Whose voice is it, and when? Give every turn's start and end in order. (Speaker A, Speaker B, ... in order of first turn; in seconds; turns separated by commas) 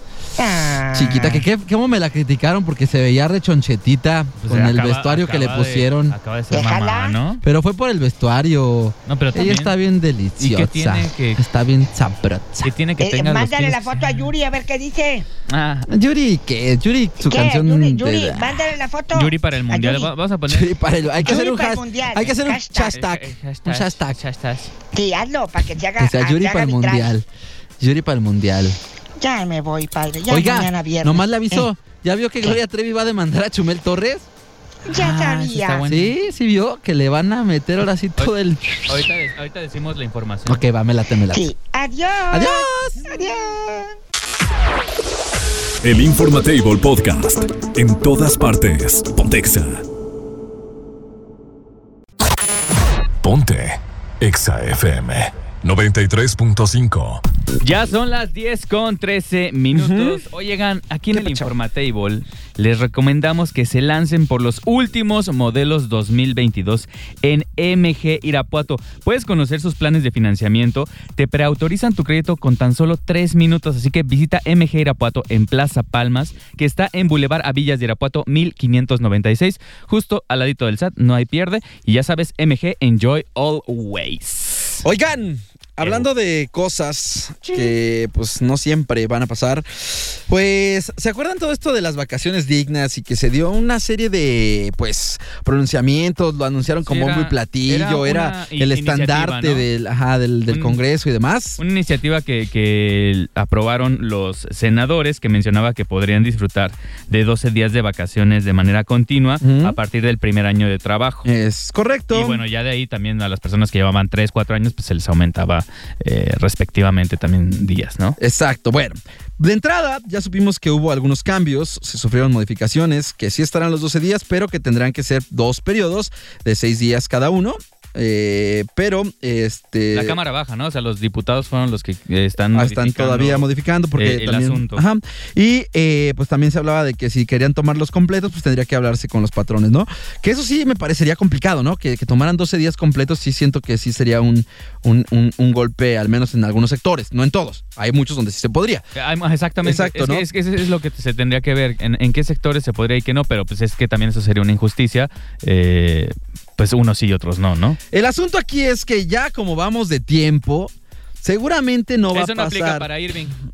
Speaker A: 0.4-1.4, Speaker B: 0.9-6.2, Speaker C: 4.4-7.4, Speaker A: 6.5-7.2, Speaker B: 7.4-12.7, Speaker C: 9.1-9.8, Speaker C: 10.4-11.4, Speaker C: 12.6-14.0, Speaker A: 13.0-15.3, Speaker C: 15.5-15.9, Speaker B: 15.9-18.6, Speaker A: 17.2-20.1, Speaker C: 19.1-21.3, Speaker B: 20.5-24.2, Speaker A: 21.2-23.0, Speaker C: 22.9-24.7, Speaker A: 24.9-27.1, Speaker B: 26.0-27.2, Speaker B: 27.8-28.8, Speaker A: 29.2-31.7, Speaker B: 30.3-34.3, Speaker A: 34.9-35.8, Speaker C: 34.9-36.2, Speaker B: 35.9-39.0, Speaker C: 38.9-40.6, Speaker B: 40.5-41.5, Speaker A: 41.3-43.9, Speaker B: 42.3-43.1, Speaker D: 45.8-49.8, Speaker D: 53.2-57.2, Speaker C: 57.6-84.8, Speaker B: 59.7-60.2, Speaker B: 61.1-61.5, Speaker B: 84.8-101.6, Speaker C: 96.8-99.7, Speaker C: 100.5-100.8, Speaker C: 101.6-111.3, Speaker B: 109.4-109.8, Speaker B: 111.2-112.4, Speaker C: 112.1-118.2, Speaker B: 118.2-130.2, Speaker C: 129.9-134.8, Speaker B: 132.5-148.9, Speaker C: 148.9-157.8, Speaker B: 149.6-150.3, Speaker B: 157.9-162.9, Speaker C: 162.1-163.4